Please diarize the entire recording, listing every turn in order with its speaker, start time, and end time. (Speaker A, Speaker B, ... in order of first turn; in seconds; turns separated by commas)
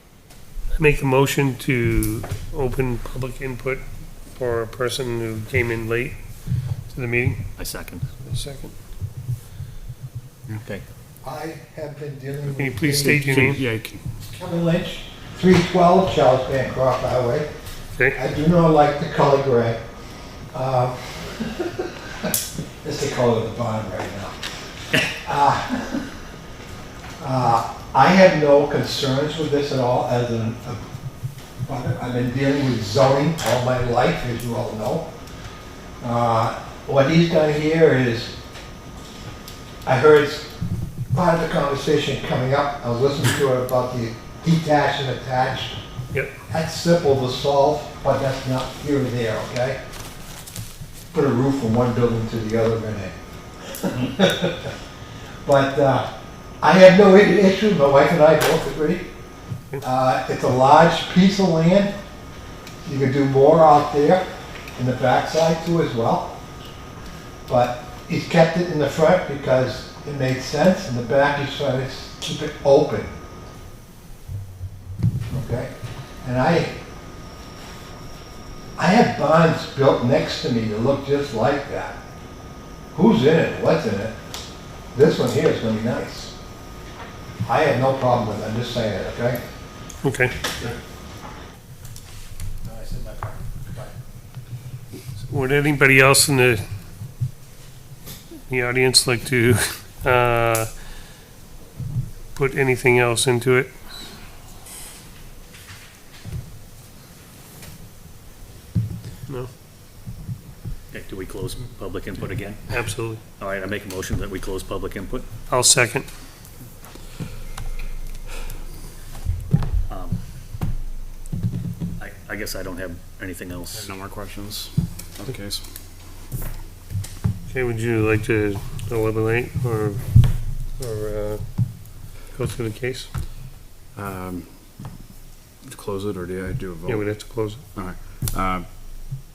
Speaker A: 0.8-6.2, Speaker A: 6.9-7.4, Speaker B: 7.6-8.1, Speaker A: 8.2-8.7, Speaker C: 11.2-13.2, Speaker A: 12.5-13.7, Speaker D: 13.0-14.0, Speaker C: 14.2-17.5, Speaker A: 17.9-18.2, Speaker C: 18.1-19.8, Speaker C: 20.5-21.7, Speaker C: 22.8-24.3, Speaker C: 25.2-26.1, Speaker C: 27.2-30.8, Speaker C: 31.6-35.1, Speaker C: 36.0-38.3, Speaker C: 39.8-40.5, Speaker C: 41.1-45.8, Speaker C: 46.5-49.8, Speaker C: 51.1-53.1, Speaker C: 53.8-54.7, Speaker C: 55.4-56.1, Speaker C: 56.6-59.0, Speaker C: 59.8-61.9, Speaker C: 62.8-66.3, Speaker C: 67.5-73.1, Speaker C: 75.3-75.7, Speaker C: 76.2-76.8, Speaker C: 78.8-82.0, Speaker C: 82.9-84.1, Speaker C: 84.9-86.3, Speaker C: 87.4-89.4, Speaker A: 90.0-90.4, Speaker C: 92.7-93.9, Speaker A: 95.3-96.6, Speaker A: 98.5-100.7, Speaker A: 102.3-103.7, Speaker B: 110.9-115.3, Speaker A: 112.7-113.2, Speaker A: 115.5-116.1, Speaker B: 119.9-120.2, Speaker B: 122.0-123.9, Speaker D: 123.7-125.6, Speaker A: 127.5-130.0, Speaker A: 130.8-131.4, Speaker A: 132.3-133.1, Speaker D: 133.9-134.5, Speaker D: 135.7-138.7, Speaker A: 136.8-137.7